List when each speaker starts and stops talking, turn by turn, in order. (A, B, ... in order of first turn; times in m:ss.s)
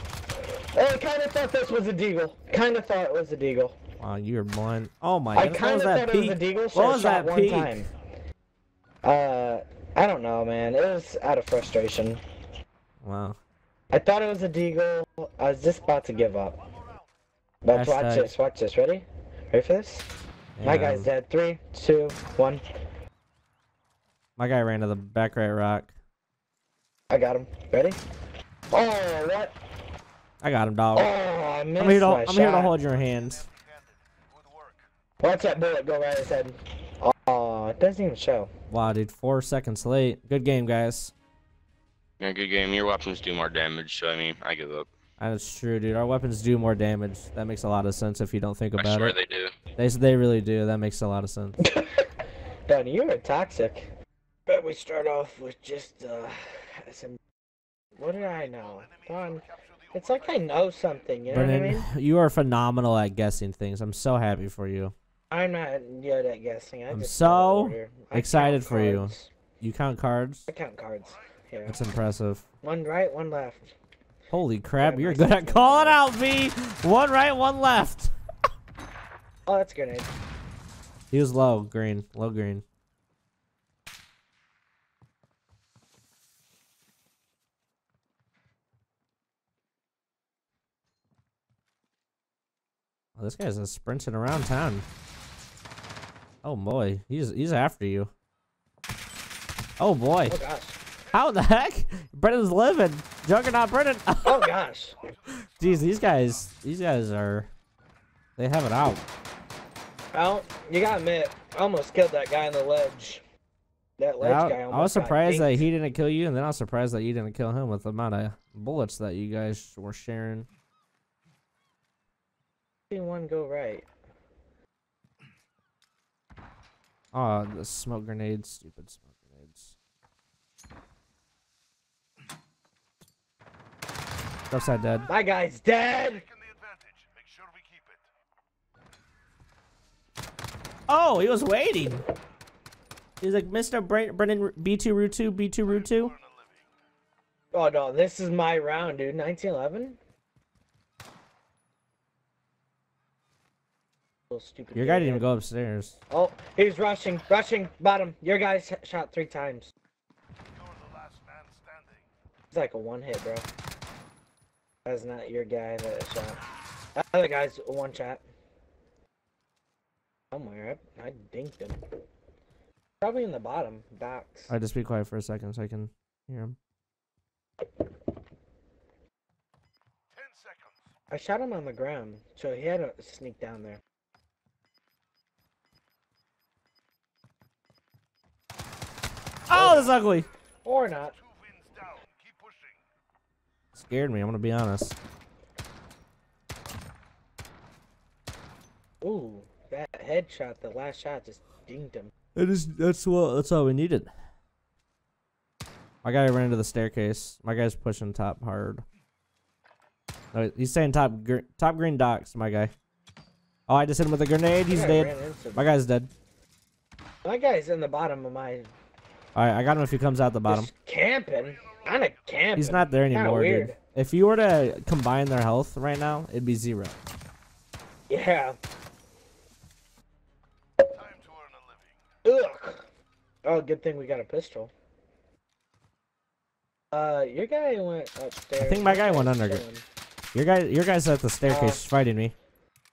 0:00.7-0:03.8 A
0:04.0-0:07.8 B
0:05.3-0:07.9 A
0:09.0-0:12.2 A
0:13.0-0:13.4 B
0:13.9-0:16.6 A
0:17.6-0:20.1 A
0:17.7-0:18.3 B
0:20.6-0:21.1 B
0:20.6-0:22.6 A
0:24.4-0:25.9 B
0:27.1-0:28.0 A
0:28.7-0:29.5 A
0:30.4-0:31.1 B
0:30.9-0:32.8 A
0:31.8-0:33.5 B
0:35.2-0:38.5 A
0:38.7-0:41.1 B
0:42.2-0:44.9 C
0:45.2-0:49.2 B
0:48.8-0:49.5 C
0:49.8-0:51.6 B
0:51.6-0:52.0 A
0:52.7-0:53.9 A
0:54.5-0:57.2 A
0:58.0-1:01.8 A
1:01.3-1:04.9 B
1:05.3-1:09.3 A
1:06.9-1:10.4 B
1:10.5-1:11.8 A
1:11.6-1:12.4 B
1:12.6-1:13.7 A
1:14.3-1:18.1 B
1:14.8-1:16.0 A
1:19.5-1:20.1 A
1:21.1-1:22.6 B
1:33.2-1:34.8 B
1:36.4-1:38.1 B
1:39.8-1:40.4 B
1:40.3-1:40.8 A
1:41.1-1:44.5 B
1:44.2-1:44.9 A
1:45.3-1:47.5 B
1:48.4-1:49.0 B
1:50.1-1:53.2 A
1:54.0-1:55.7 A
1:54.2-2:00.5 B
2:02.9-2:03.9 A
2:07.1-2:09.8 B
2:14.5-2:15.1 B
2:15.1-2:16.3 A
2:20.9-2:22.0 B
2:23.2-2:26.1 B
2:27.5-2:30.0 A
2:34.3-2:35.2 A
2:34.7-2:36.0 B
2:36.1-2:39.7 A
2:42.5-2:43.4 A
2:44.8-2:46.4 A
2:47.0-2:48.2 A
2:50.3-2:51.8 A
2:53.0-2:54.5 A
2:54.5-2:56.6 B
3:01.1-3:03.8 A
3:09.5-3:10.3 B
3:09.5-3:09.9 A
3:10.6-3:11.2 A
3:13.7-3:15.0 B
3:19.0-3:22.1 A
3:22.4-3:24.1 B
3:26.0-3:28.8 B
3:30.3-3:32.7 B
3:33.7-3:36.1 B
3:34.7-3:35.7 A
3:37.2-3:38.7 A
3:39.3-3:40.7 B
3:40.5-3:43.8 A
3:42.6-3:47.0 B
3:48.1-3:48.6 A
3:52.2-3:52.9 A
3:53.4-3:54.7 A
3:56.9-3:59.8 A
3:58.6-3:59.6 B
4:00.3-4:02.3 B
4:01.4-4:01.8 A